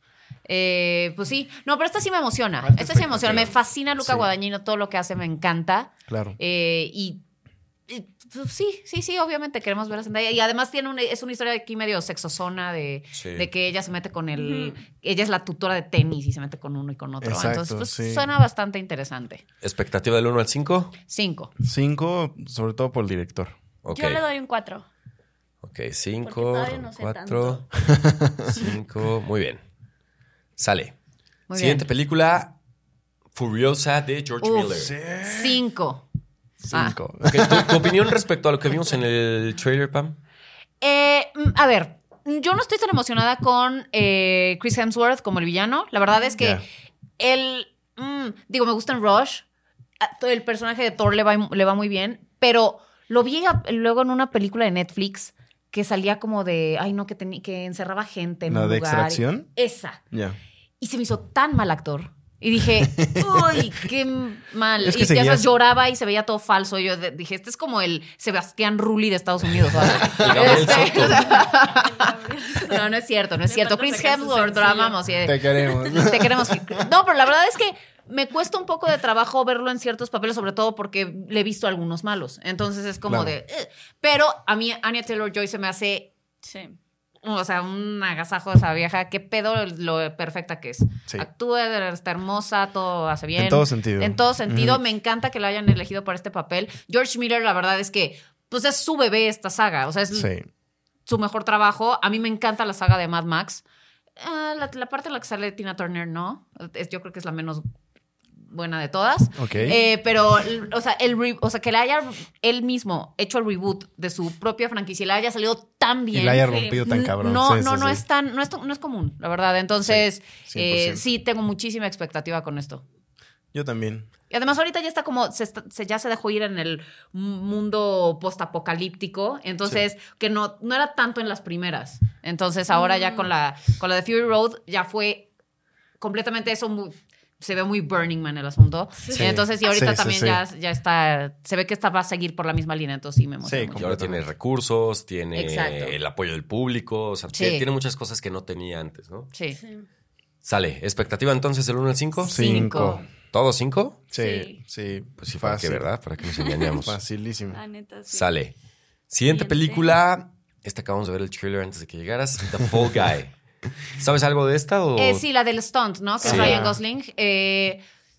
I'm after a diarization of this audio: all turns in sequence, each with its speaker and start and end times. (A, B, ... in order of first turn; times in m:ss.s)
0:00.4-0:07.2 A
0:02.6-0:03.5 B
0:03.1-0:03.5 C
0:04.0-0:04.3 B
0:06.1-0:06.4 B
0:07.9-0:19.4 A
0:13.1-0:13.5 C
0:14.3-0:14.8 D
0:17.2-0:18.3 B
0:19.6-0:20.9 C
0:21.1-0:21.5 A
0:21.6-0:23.6 B
0:23.8-0:24.2 C
0:23.9-0:24.9 D
0:25.6-0:27.7 C
0:26.2-0:27.7 D
0:27.8-0:28.6 B
0:28.5-0:29.6 C
0:30.6-0:31.0 C
0:31.5-0:31.9 A
0:31.5-0:32.6 C
0:33.3-0:35.0 C
0:34.4-0:36.0 A
0:34.8-0:35.6 B
0:36.6-0:38.0 B
0:37.2-0:40.2 C
0:40.8-0:46.6 A
0:47.2-0:49.4 A
0:50.0-1:00.0 A
0:58.5-0:59.5 B
1:00.1-1:00.4 B
1:00.8-1:26.1 A
1:02.7-1:03.7 B
1:04.8-1:05.5 B
1:09.8-1:11.4 C
1:10.0-1:10.8 B
1:10.6-1:12.9 D
1:13.4-1:15.0 D
1:15.2-1:16.8 B
1:23.1-1:23.3 B
1:26.4-1:26.8 D
1:27.2-1:40.3 A
1:33.4-1:34.8 B
1:40.1-1:40.5 B
1:41.1-1:43.6 A
1:44.2-1:47.6 A
1:48.5-2:02.8 A
1:49.4-1:49.8 B
1:56.1-1:58.0 B
1:56.4-1:56.8 D
1:59.8-2:01.0 B
2:03.5-2:04.1 B
2:04.3-2:15.3 A
2:12.7-2:13.3 D
2:16.0-2:23.8 A
2:19.0-2:19.3 D
2:19.1-2:20.4 B
2:23.4-2:24.3 B
2:23.8-2:29.3 C
2:25.4-2:26.0 A
2:27.3-2:27.7 A
2:29.3-2:29.6 A
2:29.6-2:29.9 D
2:30.4-2:32.7 C
2:32.2-2:33.0 A
2:32.2-2:33.0 B
2:33.3-2:34.0 C
2:34.1-2:35.9 B
2:34.1-2:34.6 D
2:35.2-2:37.0 C
2:36.8-2:37.6 B
2:37.5-2:38.3 D
2:38.1-2:38.6 C
2:39.1-2:43.3 C
2:39.3-2:40.0 D
2:44.0-2:45.2 C
2:45.0-2:47.8 A
2:46.2-2:46.6 C
2:46.2-2:46.8 B